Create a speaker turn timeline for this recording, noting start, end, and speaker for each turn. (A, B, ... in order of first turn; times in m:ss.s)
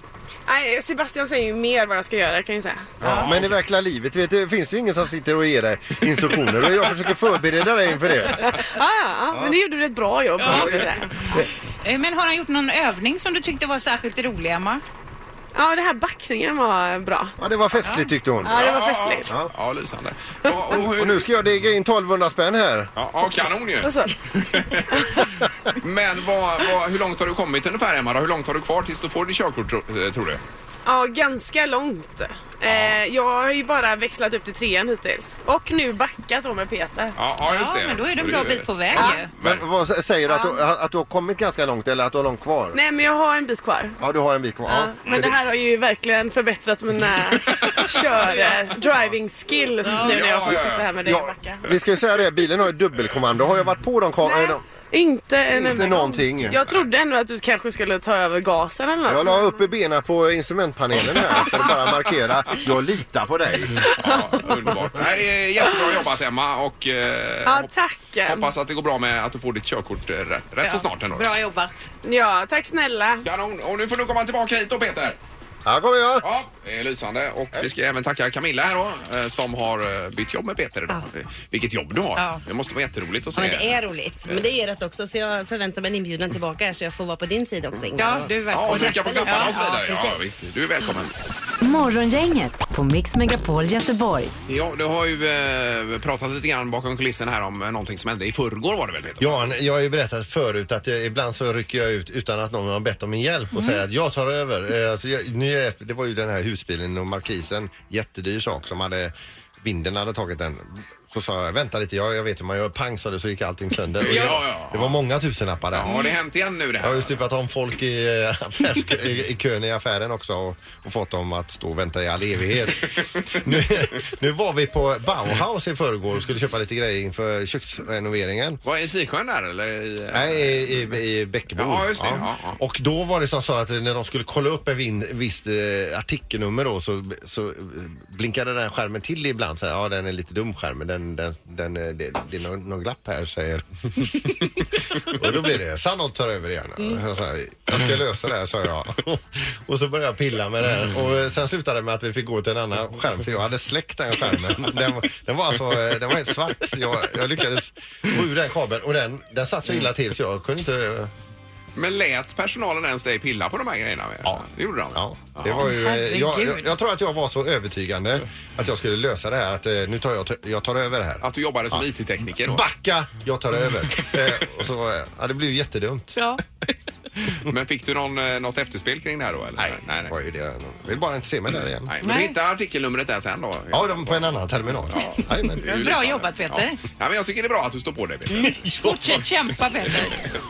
0:00.4-0:02.9 A
0:03.0-0:08.5 B
0:03.0-0:03.6 C
0:08.4-0:11.0 A
0:09.3-0:09.6 B
0:10.4-0:10.7 D
0:10.4-0:11.5 B
0:11.8-0:14.8 D
0:15.5-0:17.3 A
0:17.4-0:18.6 B
0:17.8-0:18.1 D
0:18.4-0:19.3 A
0:18.5-0:21.3 C
0:19.2-0:19.5 B
0:20.7-0:22.9 B
0:22.9-0:30.4 C
0:23.8-0:24.2 A
0:30.8-0:37.1 A
0:32.6-0:33.0 C
0:37.2-0:39.6 C
0:37.4-0:39.3 D
0:39.0-0:42.8 B
0:40.3-0:40.6 A
0:42.7-0:44.0 A
0:44.0-0:45.4 B
0:44.6-0:51.7 A
0:47.3-0:48.0 C
0:49.8-0:50.9 C
0:51.0-0:54.6 B
0:54.2-0:59.6 A
0:55.5-0:56.6 B
0:56.6-0:56.9 C
0:59.0-1:03.9 B
1:01.2-1:01.7 A
1:03.9-1:07.7 C
1:05.6-1:06.0 A
1:07.4-1:08.5 A
1:08.3-1:11.3 C
1:10.6-1:11.9 D
1:12.0-1:13.2 A
1:13.2-1:15.2 C
1:15.6-1:16.3 B
1:16.2-1:24.6 C
1:22.2-1:22.4 D
1:23.4-1:30.2 E
1:28.0-1:29.7 D
1:28.4-1:31.2 C
1:31.6-1:34.3 F
1:34.5-1:39.5 C
1:39.2-1:56.0 B
1:54.0-1:55.0 C
1:55.7-1:57.2 C
1:56.8-2:08.6 B
2:08.6-2:11.0 C
2:10.1-2:41.1 B
2:11.5-2:12.6 C
2:41.8-2:45.8 C
2:44.2-2:51.8 B
2:45.6-2:46.7 D
2:51.2-2:52.6 C
2:52.4-2:56.2 B
2:57.3-3:00.1 C
3:00.1-3:01.9 B
3:01.8-3:08.5 C
3:02.0-3:02.3 D
3:03.7-3:05.9 B
3:05.6-3:06.8 D
3:08.3-3:10.2 D
3:08.4-3:09.2 B